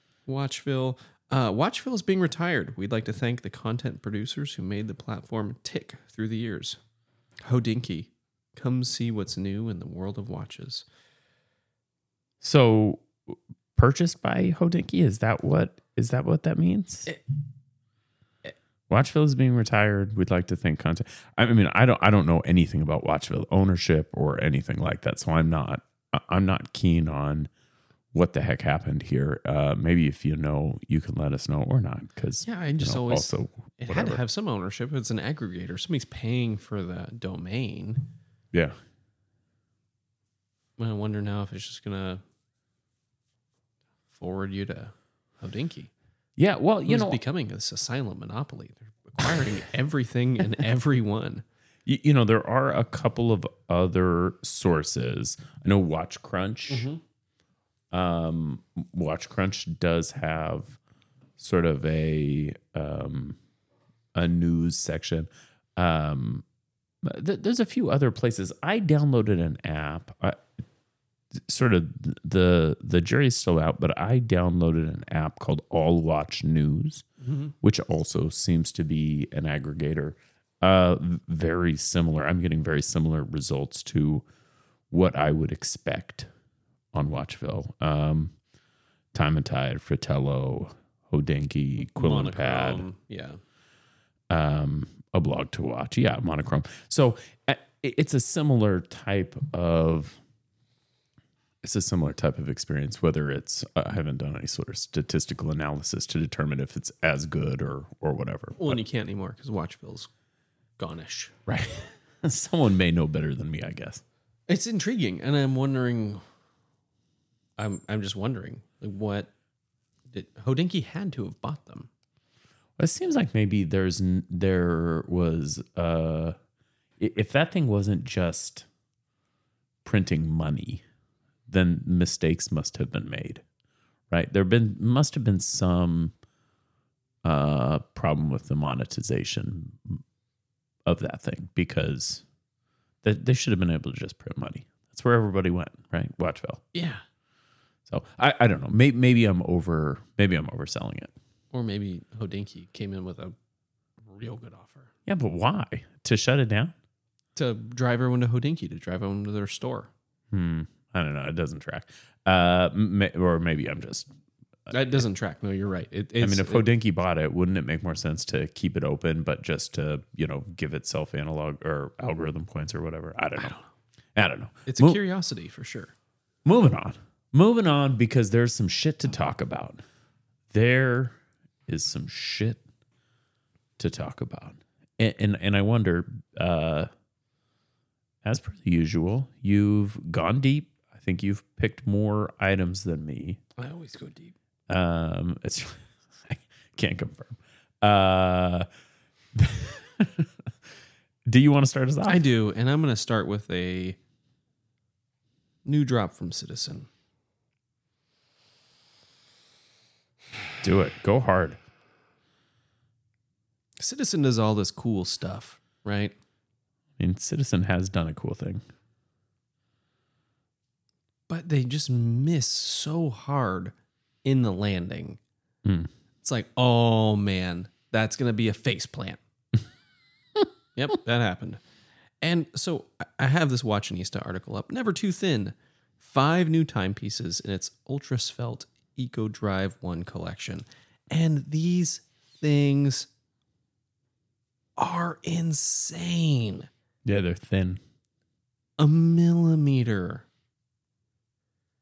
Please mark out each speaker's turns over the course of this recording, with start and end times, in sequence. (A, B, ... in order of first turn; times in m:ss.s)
0:00.2-0:06.8 A
0:07.4-0:10.8 A
0:12.4-0:17.1 B
0:18.9-0:27.5 B
0:28.1-0:34.2 B
0:32.4-0:38.0 A
0:40.8-0:42.2 A
0:44.1-0:45.9 A
0:46.4-0:47.2 B
0:46.8-0:51.4 A
0:51.8-0:56.9 B
0:56.7-0:57.0 A
0:57.9-1:00.8 B
1:01.4-1:03.4 B
1:04.1-1:06.4 B
1:07.0-1:10.4 B
1:11.4-1:17.0 B
1:17.2-1:17.5 A
1:17.6-1:24.2 B
1:24.9-1:26.3 B
1:26.9-1:28.3 B
1:29.1-1:32.8 B
1:31.8-1:33.4 A
1:34.3-1:40.2 B
1:41.6-1:48.8 B
1:48.6-1:50.1 A
1:50.8-1:51.3 A
1:51.4-1:54.0 B
1:54.5-1:56.2 A
1:57.6-1:59.3 A
2:00.1-2:01.9 A
2:02.8-2:06.4 B
2:07.0-2:08.7 B
2:09.8-2:10.8 B
2:11.5-2:13.4 B
2:14.1-2:16.1 B
2:17.2-2:20.0 B
2:20.8-2:22.2 B
2:23.0-2:26.6 B
2:26.7-2:27.0 A
2:27.9-2:31.1 B
2:31.5-2:33.3 A
2:34.0-2:34.9 A
2:35.0-2:36.7 B
2:37.4-2:39.9 A
2:40.3-2:44.1 B
2:44.7-2:46.6 A
2:46.2-2:53.6 B
2:53.4-2:53.6 A
2:54.1-2:55.0 B
2:54.7-2:55.9 A
2:56.4-2:59.8 B
3:00.5-3:02.6 B
3:03.8-3:06.9 B
3:08.2-3:13.4 B
3:13.6-3:14.3 A
3:14.7-3:18.7 B
3:19.3-3:20.3 B
3:21.2-3:22.2 B
3:22.0-3:24.0 A
3:25.6-3:26.9 A
3:30.6-3:31.6 B
3:33.8-3:36.1 A
3:37.0-3:38.6 B
3:41.3-3:43.7 A
3:44.2-3:45.2 A
3:45.6-3:45.9 B
3:46.2-3:49.2 A
3:50.8-3:51.6 A
3:52.2-4:03.1 A
4:04.8-4:06.7 A
4:07.0-4:07.8 B
4:08.8-4:10.3 A